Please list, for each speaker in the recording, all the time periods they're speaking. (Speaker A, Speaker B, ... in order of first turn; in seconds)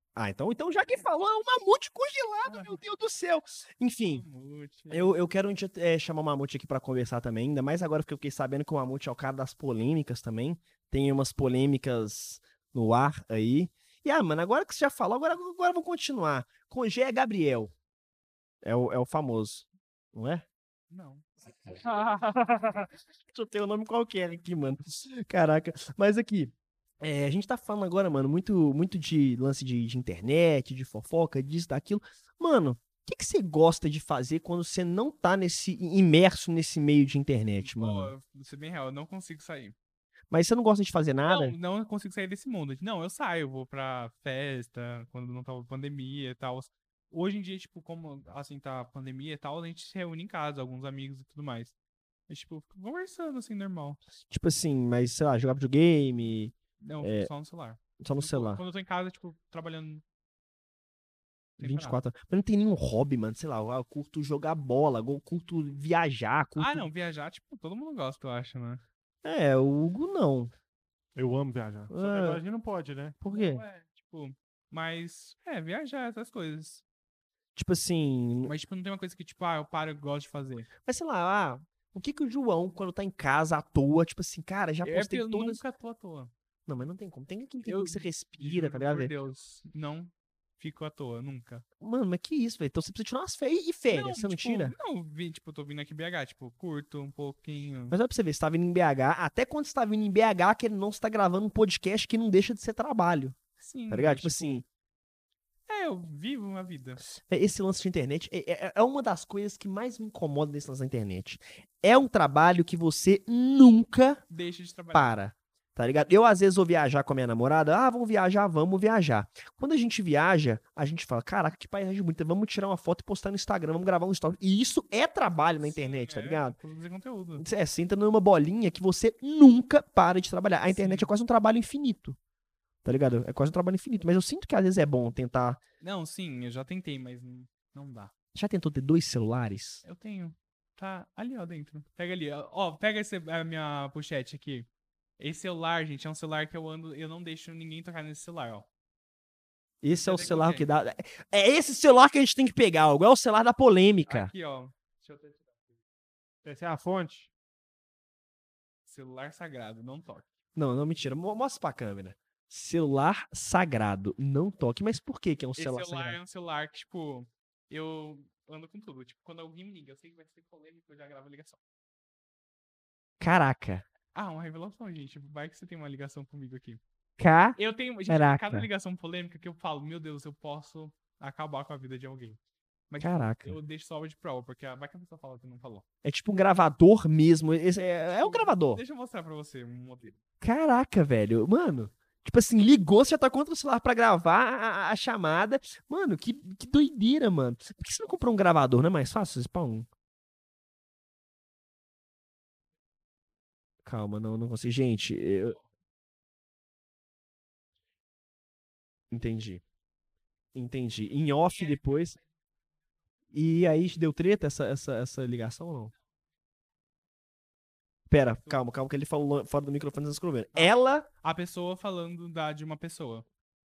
Speaker A: 0.1-4.2, 4.9-17.7, 18.6-20.4, 23.3-38.1, 40.3-41.5, 54.3-57.3, 58.0-58.6, 61.6-66.9, 69.2-70.5, 71.9-72.4, 73.2-73.6, 77.5-78.5, 80.8-85.6, 86.7-89.1, 91.8-94.7, 97.9-103.4, 103.9-104.6, 107.2-114.2, 114.9-126.5, 127.4-132.2, 132.8-135.6, 138.3-139.8, 149.8-154.3, 160.6-166.2, 173.2-173.8, 177.2-178.7, 183.0-183.6, 186.0-188.8, 190.4-199.9, 203.8-205.6, 209.1-209.6, 210.5-212.2, 213.3-215.9, 218.1-221.1
Speaker B: 2.4-2.8, 4.0-5.2, 20.9-21.2, 37.6-39.7, 41.2-51.7, 52.3-54.0, 56.8-60.0, 61.6-62.0, 66.6-68.8, 73.3-76.8, 78.4-80.7, 84.8-86.3, 87.6-91.6, 93.9-98.0, 103.6-104.6, 105.7-107.0, 114.3-115.1, 125.6-127.4, 130.7-131.1, 135.8-138.1, 139.8-144.7, 145.2-148.7, 149.9-150.7, 154.1-155.5, 158.8-160.3, 165.6-171.6, 174.1-176.8, 177.6-185.8, 188.1-190.2, 218.3-218.6, 220.5-223.2
Speaker C: 71.1-73.2, 156.4-157.3